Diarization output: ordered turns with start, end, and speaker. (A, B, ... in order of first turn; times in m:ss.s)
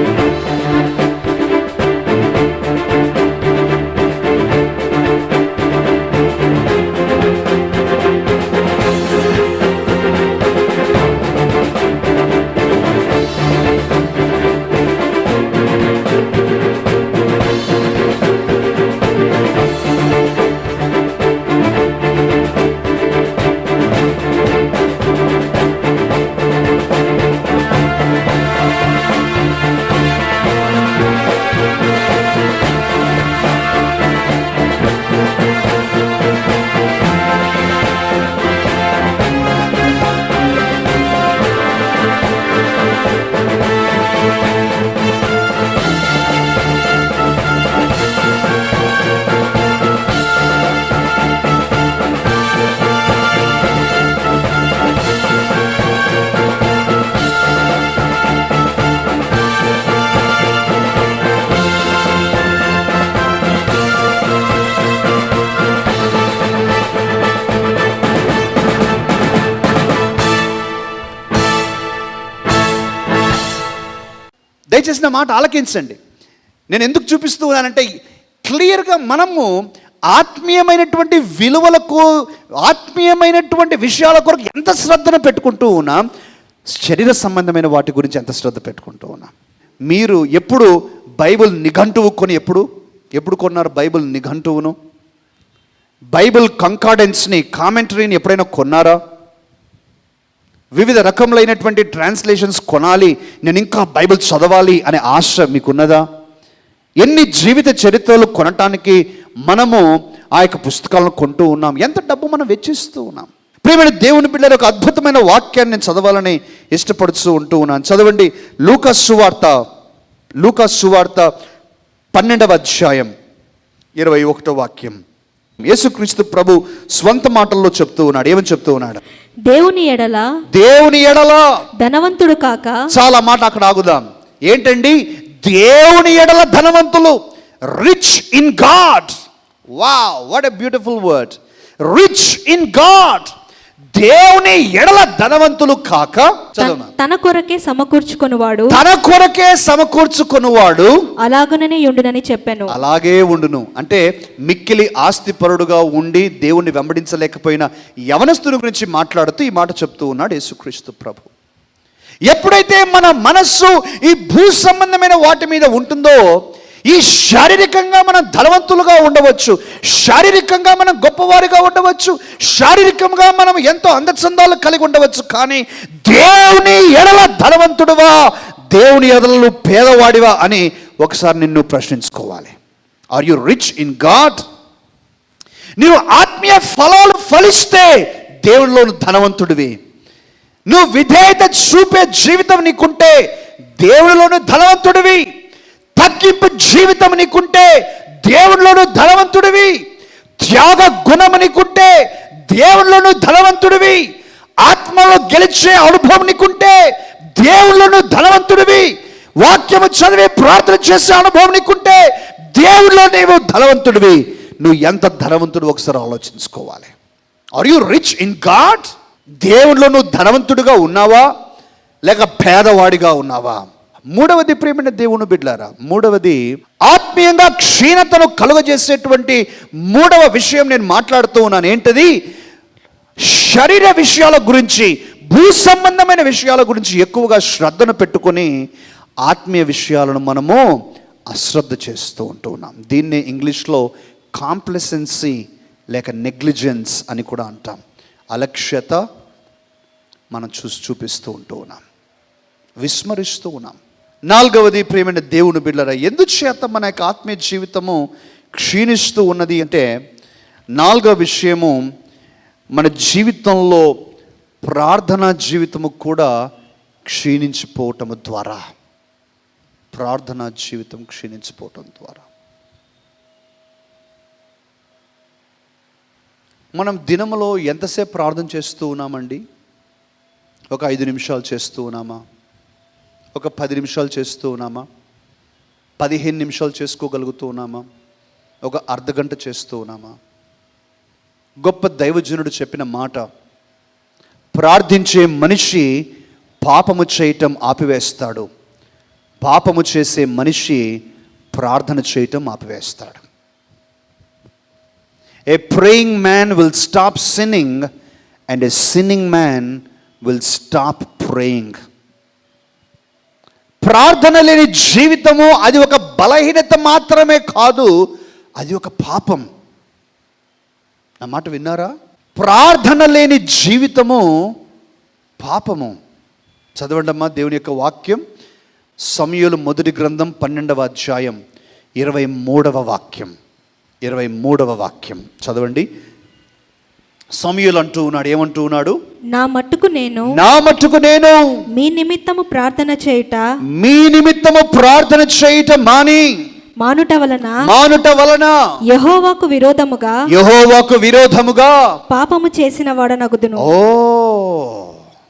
1:14.7-1:16.0 A
1:16.7-1:17.8 A
1:18.4-1:19.5 A
1:20.1-1:22.0 A
1:22.6-1:26.0 A
1:26.7-1:29.3 A
1:29.9-1:32.6 A
1:33.2-1:34.7 A
1:36.1-1:39.0 A
1:40.8-1:46.0 A
1:47.0-1:59.6 A
2:00.4-2:01.3 A
2:02.1-2:03.1 A
2:04.0-2:05.0 A
2:05.6-2:09.0 A
2:09.4-2:10.3 B
2:10.5-2:11.4 A
2:11.8-2:12.8 B
2:12.9-2:17.2 A
2:17.7-2:19.2 A
2:19.8-2:23.3 A
2:23.9-2:26.9 A
2:26.6-2:28.8 B
2:28.7-2:30.9 A
2:31.2-2:32.7 B
2:32.7-2:41.3 A
2:42.3-2:46.2 A
2:46.9-3:02.5 A
3:03.1-3:04.4 A
3:05.8-3:09.8 A
3:10.7-3:13.2 A
3:13.8-3:15.2 A
3:15.9-3:19.8 A
3:20.4-3:24.0 A
3:24.6-3:36.9 A
3:37.6-3:38.9 A
3:39.4-3:41.3 A
3:42.0-3:52.1 A
3:53.2-3:58.5 A
3:59.2-4:00.6 A
4:01.3-4:05.4 A
4:05.9-4:07.8 A
4:08.3-4:09.0 A
4:10.3-4:11.8 A
4:12.8-4:13.8 A
4:14.3-4:18.0 A
4:18.5-4:19.8 A
4:20.8-4:21.8 A
4:22.7-4:23.9 A
4:24.6-4:26.3 A
4:27.1-4:28.6 A
4:29.9-4:32.2 A
4:36.7-4:39.4 A
4:40.7-4:42.2 A
4:43.3-4:44.8 A
4:46.0-4:47.8 A
4:48.6-4:50.1 A
4:51.6-4:53.2 A
4:54.5-4:56.0 A
4:56.6-4:58.4 A
4:59.4-5:01.0 A
5:01.5-5:03.2 A
5:05.5-5:07.9 A
5:08.5-5:11.8 A
5:13.8-5:17.9 A
5:18.6-5:19.4 A
5:21.2-5:24.2 A
5:25.4-5:25.9 A
5:26.8-5:28.2 A
5:29.0-5:31.4 A
5:32.0-5:33.3 A
5:34.0-5:35.9 A
5:37.4-5:39.0 A
5:39.3-5:40.3 B
5:40.3-5:41.4 A
5:41.7-5:43.4 B
5:43.7-5:46.4 A
5:46.8-5:47.6 B
5:47.6-5:48.5 A
5:48.9-5:50.2 B
5:50.3-5:51.7 A
5:52.1-5:53.7 B
5:53.6-5:54.9 A